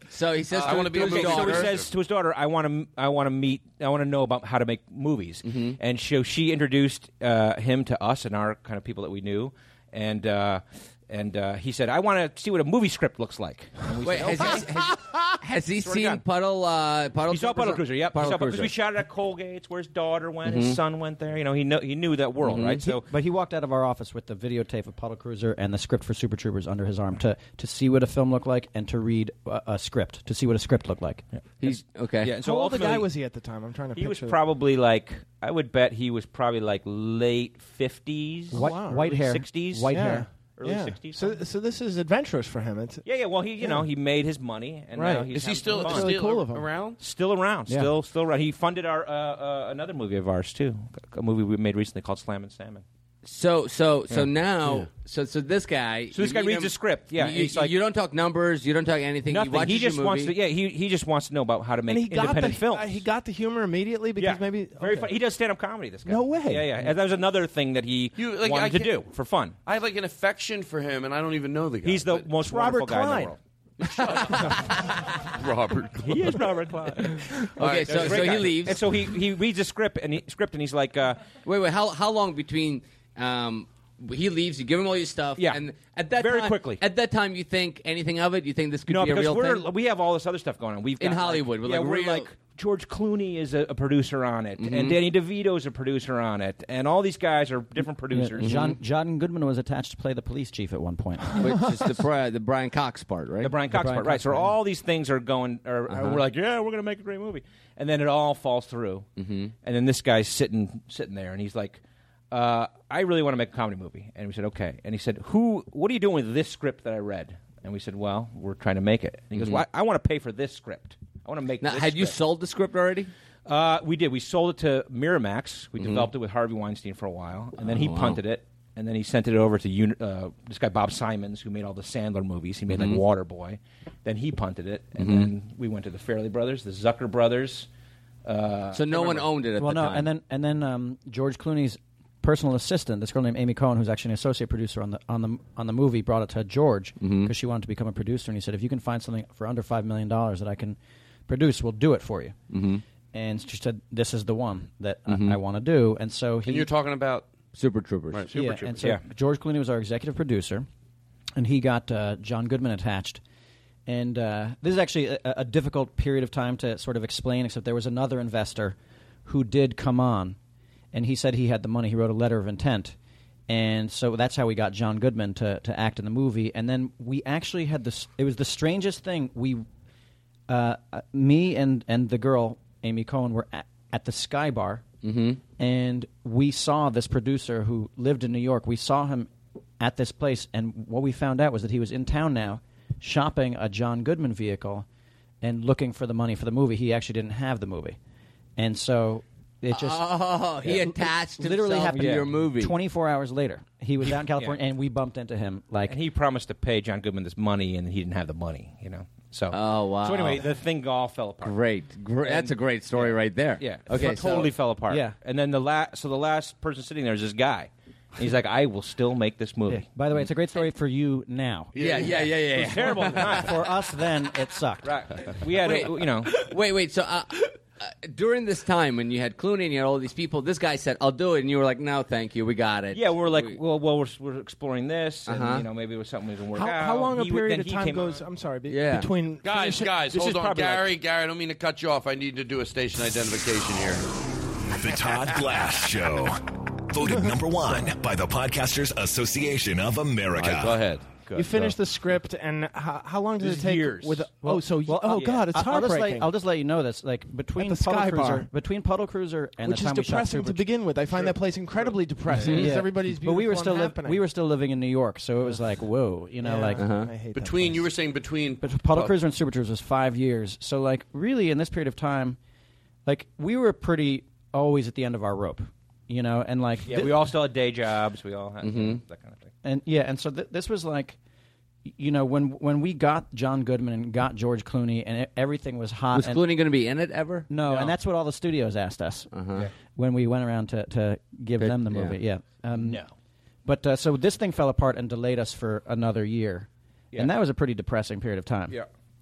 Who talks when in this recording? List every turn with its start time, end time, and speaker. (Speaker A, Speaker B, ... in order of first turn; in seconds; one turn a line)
Speaker A: 0.1-1.8
Speaker B: 0.5-16.2
Speaker C: 0.5-1.9
Speaker A: 5.4-5.8
Speaker A: 14.0-18.7
Speaker B: 17.2-23.1
Speaker A: 20.4-20.8
Speaker A: 22.4-22.8
Speaker D: 22.8-31.2
Speaker A: 31.6-32.3
Speaker B: 31.6-33.1
Speaker E: 32.3-34.4
Speaker B: 33.9-41.4
Speaker E: 38.5-39.1
Speaker D: 38.5-40.3
Speaker E: 39.9-43.0
Speaker B: 43.0-46.1
Speaker E: 43.6-43.8
Speaker E: 44.9-46.7
Speaker C: 45.3-47.0
Speaker B: 47.0-52.8
Speaker A: 53.2-60.3
Speaker B: 56.1-57.7
Speaker B: 59.2-63.0
Speaker E: 61.9-65.1
Speaker B: 64.2-69.5
Speaker E: 66.0-66.9
Speaker C: 68.2-69.0
Speaker C: 69.6-72.2
Speaker B: 71.8-73.4
Speaker E: 72.3-73.3
Speaker A: 73.8-74.5
Speaker C: 73.9-76.5
Speaker B: 76.0-81.3
Speaker C: 77.5-78.6
Speaker A: 77.6-78.8
Speaker A: 81.4-89.7
Speaker B: 85.3-86.8
Speaker B: 88.9-98.7
Speaker A: 91.0-92.3
Speaker A: 94.6-95.0
Speaker D: 98.1-101.4
Speaker A: 98.4-98.7
Speaker A: 101.4-103.5
Speaker B: 103.4-109.1
Speaker D: 103.7-104.5
Speaker A: 105.9-106.2
Speaker A: 109.2-109.5
Speaker B: 109.6-111.8
Speaker B: 112.3-122.2
Speaker A: 119.3-119.6
Speaker A: 121.6-123.1
Speaker B: 123.5-137.7
Speaker A: 125.8-126.1
Speaker A: 127.6-128.2
Speaker A: 132.7-133.0
Speaker A: 135.0-135.3
Speaker B: 138.2-139.3
Speaker A: 138.7-140.1
Speaker D: 139.6-150.8
Speaker A: 147.0-147.3
Speaker D: 151.3-152.4
Speaker A: 152.5-152.8
Speaker D: 153.1-156.7
Speaker A: 155.1-155.4
Speaker C: 156.4-157.3
Speaker A: 157.5-158.3
Speaker C: 158.1-158.8
Speaker D: 158.3-160.7
Speaker B: 158.8-159.0
Speaker D: 161.3-163.2
Speaker D: 163.8-170.4
Speaker D: 170.9-172.9
Speaker D: 173.5-179.6
Speaker D: 180.5-184.8
Speaker A: 185.0-185.4
Speaker D: 185.6-194.8
Speaker D: 195.4-198.0
Speaker D: 198.6-205.9
Speaker A: 199.7-202.7
Speaker B: 201.9-202.4
Speaker B: 205.8-219.9
Speaker A: 209.5-210.5
Speaker A: 211.4-214.6
Speaker D: 214.9-215.1
Speaker D: 219.7-221.8
Speaker C: 221.7-222.3
Speaker A: 221.8-223.4
Speaker B: 222.5-223.7
Speaker D: 223.2-224.9
Speaker B: 224.8-226.4
Speaker A: 225.5-233.6
Speaker B: 232.9-238.2
Speaker A: 235.3-235.7
Speaker E: 236.5-240.0
Speaker A: 238.7-239.1
Speaker C: 239.4-244.0
Speaker B: 240.1-240.9
Speaker F: 244.8-250.8
Speaker C: 250.3-251.1
Speaker E: 251.3-256.3
Speaker B: 251.3-251.7
Speaker B: 253.4-254.3
Speaker D: 254.4-260.6
Speaker B: 255.1-255.4
Speaker E: 257.6-258.5
Speaker E: 259.6-264.2
Speaker A: 262.3-262.8
Speaker D: 262.4-266.8
Speaker E: 266.4-267.9
Speaker A: 266.8-267.1
Speaker C: 267.3-269.1
Speaker D: 268.6-272.4
Speaker D: 273.1-277.1
Speaker B: 276.9-279.5
Speaker A: 278.6-279.0
Speaker D: 279.6-281.2
Speaker D: 281.9-286.4
Speaker A: 286.1-287.5
Speaker D: 287.5-289.3
Speaker A: 289.3-289.7
Speaker D: 289.9-293.0
Speaker A: 291.6-292.1
Speaker B: 292.7-293.1
Speaker D: 293.6-298.8